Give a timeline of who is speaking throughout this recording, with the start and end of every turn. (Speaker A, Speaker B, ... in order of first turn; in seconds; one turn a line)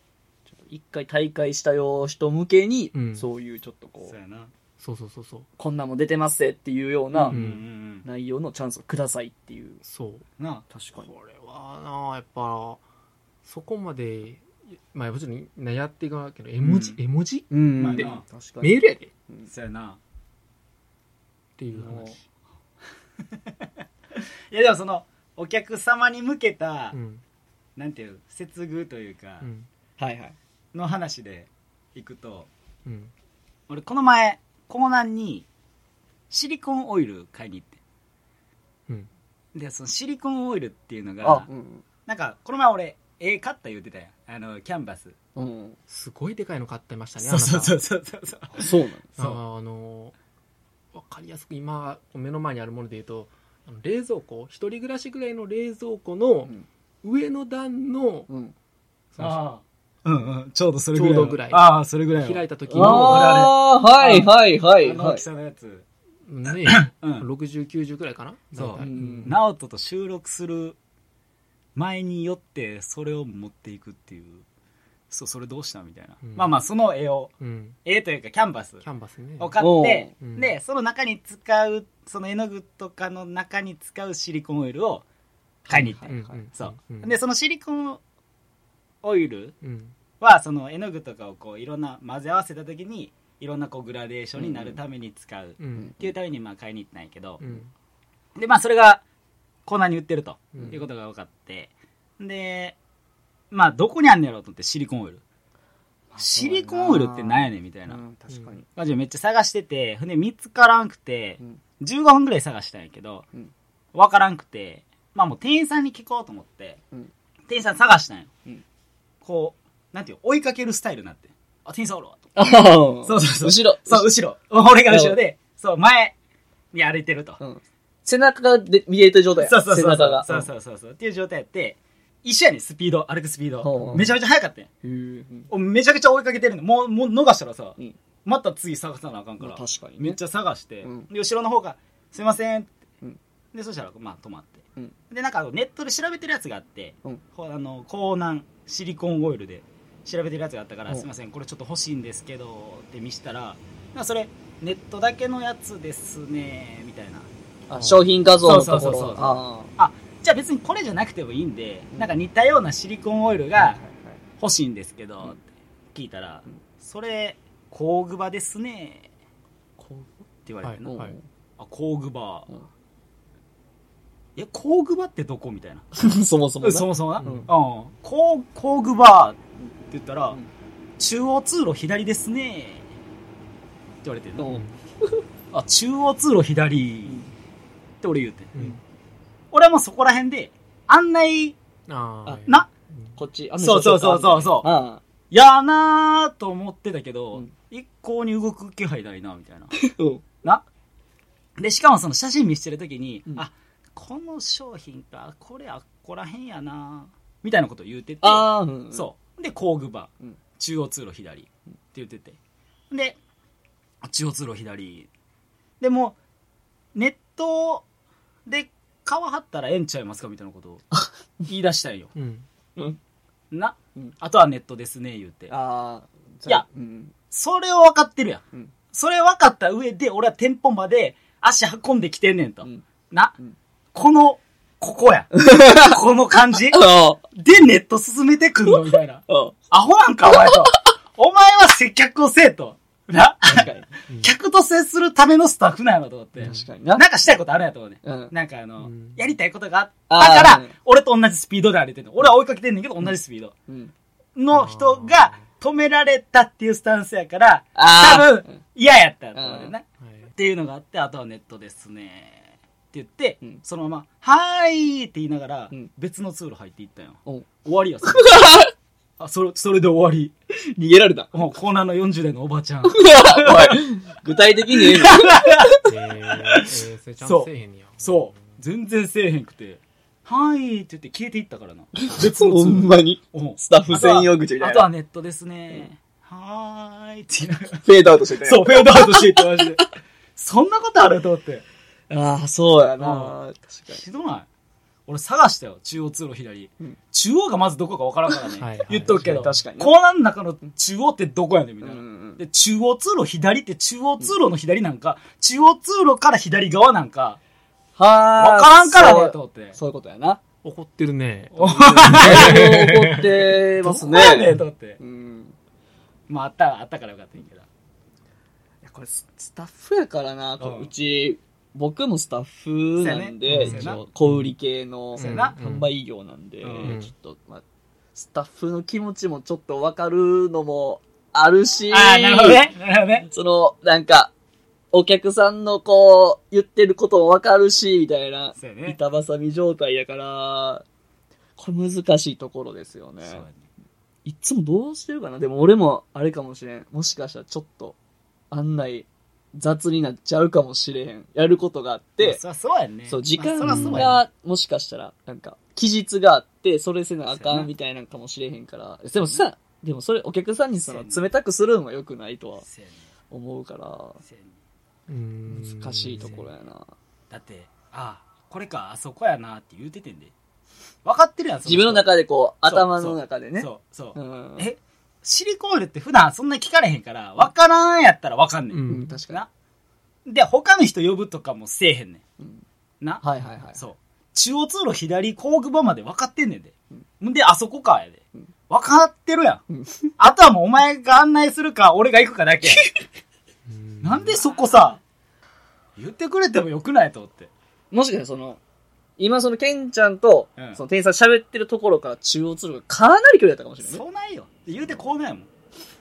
Speaker A: 0.5-4.1
Speaker B: 2.9-3.3
Speaker C: 4.0-4.5
Speaker B: 4.8-5.5
Speaker A: 5.6-7.4
Speaker C: 7.1-8.1
Speaker B: 7.3-7.6
Speaker A: 8.0-9.8
Speaker B: 9.8-10.2
Speaker C: 10.4-10.6
Speaker A: 10.7-11.1
Speaker B: 11.0-12.8
Speaker B: 13.4-19.1
Speaker C: 16.6-17.0
Speaker A: 17.5-19.5
Speaker C: 17.8-18.2
Speaker C: 19.5-20.0
Speaker B: 21.6-22.2
Speaker A: 21.7-22.1
Speaker C: 24.1-27.0
Speaker B: 26.9-27.2
Speaker C: 27.8-29.5
Speaker B: 29.4-29.7
Speaker A: 30.0-30.3
Speaker C: 30.7-32.5
Speaker B: 32.8-33.1
Speaker C: 33.7-35.5
Speaker C: 36.3-37.8
Speaker C: 39.5-41.5
Speaker A: 41.2-41.8
Speaker C: 42.1-45.1
Speaker A: 45.4-45.8
Speaker B: 45.9-47.8
Speaker C: 47.2-49.4
Speaker A: 48.6-49.1
Speaker B: 49.2-50.1
Speaker B: 50.9-58.3
Speaker A: 58.3-58.5
Speaker B: 59.1-59.4
Speaker C: 59.2-64.3
Speaker B: 60.9-63.4
Speaker A: 62.7-65.2
Speaker C: 64.8-65.8
Speaker B: 66.3-69.4
Speaker C: 66.5-67.3
Speaker C: 68.5-70.8
Speaker A: 68.8-69.4
Speaker C: 71.8-74.4
Speaker C: 75.1-78.8
Speaker B: 76.2-76.5
Speaker B: 77.4-77.8
Speaker B: 78.8-79.6
Speaker C: 79.4-85.0
Speaker A: 79.6-80.1
Speaker B: 80.2-80.5
Speaker A: 85.7-86.4
Speaker C: 85.7-88.0
Speaker B: 86.0-87.1
Speaker C: 89.0-89.5
Speaker B: 89.6-89.9
Speaker C: 90.2-97.4
Speaker A: 94.3-94.8
Speaker B: 95.6-95.9
Speaker B: 97.4-97.7
Speaker C: 98.3-99.0
Speaker C: 99.7-102.8
Speaker B: 100.5-100.8
Speaker C: 103.5-105.2
Speaker A: 106.1-108.7
Speaker C: 106.2-108.0
Speaker B: 108.3-108.5
Speaker C: 108.8-113.2
Speaker C: 113.9-116.8
Speaker C: 117.5-118.3
Speaker C: 119.2-122.3
Speaker A: 122.3-124.1
Speaker C: 123.0-126.1
Speaker A: 124.9-125.2
Speaker C: 126.7-127.4
Speaker A: 127.4-130.4
Speaker C: 129.4-134.7
Speaker A: 133.6-134.1
Speaker A: 134.8-135.5
Speaker C: 135.5-142.7
Speaker A: 139.4-140.2
Speaker A: 140.8-141.1
Speaker C: 143.5-157.3
Speaker A: 157.7-159.7
Speaker B: 157.7-158.1
Speaker C: 158.4-163.8
Speaker A: 163.6-164.2
Speaker C: 164.4-165.4
Speaker C: 165.9-169.1
Speaker A: 169.8-170.2
Speaker C: 170.4-170.9
Speaker B: 170.6-171.1
Speaker A: 170.8-171.2
Speaker C: 171.6-172.5
Speaker C: 174.3-175.9
Speaker A: 175.9-177.5
Speaker C: 176.6-180.4
Speaker C: 181.0-182.9
Speaker C: 184.0-184.5
Speaker A: 184.4-185.2
Speaker B: 184.4-184.8
Speaker C: 185.5-187.2
Speaker C: 188.0-188.8
Speaker B: 188.5-188.8
Speaker C: 189.5-191.6
Speaker B: 191.9-193.2
Speaker A: 193.2-195.0
Speaker C: 193.6-194.7
Speaker C: 195.3-199.7
Speaker A: 199.7-200.2
Speaker C: 201.6-212.4
Speaker A: 208.2-209.1
Speaker C: 212.9-213.2
Speaker C: 214.0-215.1
Speaker C: 215.8-216.2
Speaker C: 216.9-217.8
Speaker C: 218.4-220.8
Speaker C: 221.4-222.1
Speaker B: 222.1-222.5
Speaker C: 223.5-225.5
Speaker A: 225.5-227.1
Speaker C: 227.3-233.3
Speaker C: 233.9-253.5
Speaker A: 235.4-235.9
Speaker A: 236.7-237.2
Speaker A: 239.3-239.5
Speaker A: 243.5-243.8
Speaker B: 243.5-244.3
Speaker B: 246.4-246.7
Speaker A: 246.4-247.0
Speaker A: 248.0-248.3
Speaker B: 248.8-249.3
Speaker A: 250.1-250.7
Speaker C: 254.3-270.3
Speaker B: 254.5-255.5
Speaker A: 257.8-258.6
Speaker A: 259.3-259.7
Speaker B: 260.0-260.3
Speaker A: 268.1-268.7
Speaker A: 270.7-271.3
Speaker C: 271.3-273.8
Speaker A: 272.9-275.6
Speaker C: 274.7-287.8
Speaker B: 275.8-278.6
Speaker A: 282.0-284.9
Speaker A: 287.8-289.4
Speaker C: 288.4-291.6
Speaker A: 292.1-294.0
Speaker C: 293.0-293.4
Speaker C: 293.9-294.5
Speaker C: 295.1-307.4
Speaker B: 298.5-299.6
Speaker A: 299.2-299.9
Speaker A: 301.8-302.4
Speaker A: 308.0-310.4
Speaker C: 308.4-309.8
Speaker B: 310.6-313.3
Speaker C: 311.5-312.9
Speaker A: 312.1-315.6
Speaker C: 313.8-315.0
Speaker C: 316.3-317.7
Speaker A: 318.8-327.6
Speaker C: 320.6-320.9
Speaker C: 323.0-324.1
Speaker B: 323.4-324.5
Speaker C: 325.1-325.6
Speaker B: 325.1-325.9
Speaker C: 326.6-327.0
Speaker B: 326.8-327.1
Speaker A: 328.1-332.6
Speaker C: 331.9-333.3
Speaker A: 333.3-334.3
Speaker A: 334.9-340.8
Speaker C: 338.5-339.0
Speaker A: 341.6-343.4
Speaker C: 343.2-343.7
Speaker A: 344.2-348.0
Speaker A: 348.5-352.4
Speaker C: 352.2-354.2
Speaker A: 353.1-362.6
Speaker B: 353.6-354.2
Speaker C: 357.3-357.7
Speaker C: 360.9-361.2
Speaker C: 362.6-363.1
Speaker A: 363.3-364.2
Speaker C: 364.2-364.5
Speaker B: 365.1-366.5
Speaker A: 365.5-366.9
Speaker C: 367.3-370.3
Speaker C: 371.0-372.1
Speaker A: 371.6-374.7
Speaker C: 372.6-379.5
Speaker B: 378.7-379.2
Speaker A: 378.9-379.4
Speaker C: 380.3-382.2
Speaker A: 382.4-382.6
Speaker C: 383.0-389.6
Speaker A: 383.2-383.8
Speaker A: 389.7-390.1
Speaker C: 390.2-392.8
Speaker B: 393.7-394.4
Speaker C: 394.0-395.0
Speaker C: 396.0-397.5
Speaker A: 397.9-398.6
Speaker A: 399.2-404.0
Speaker C: 403.8-405.5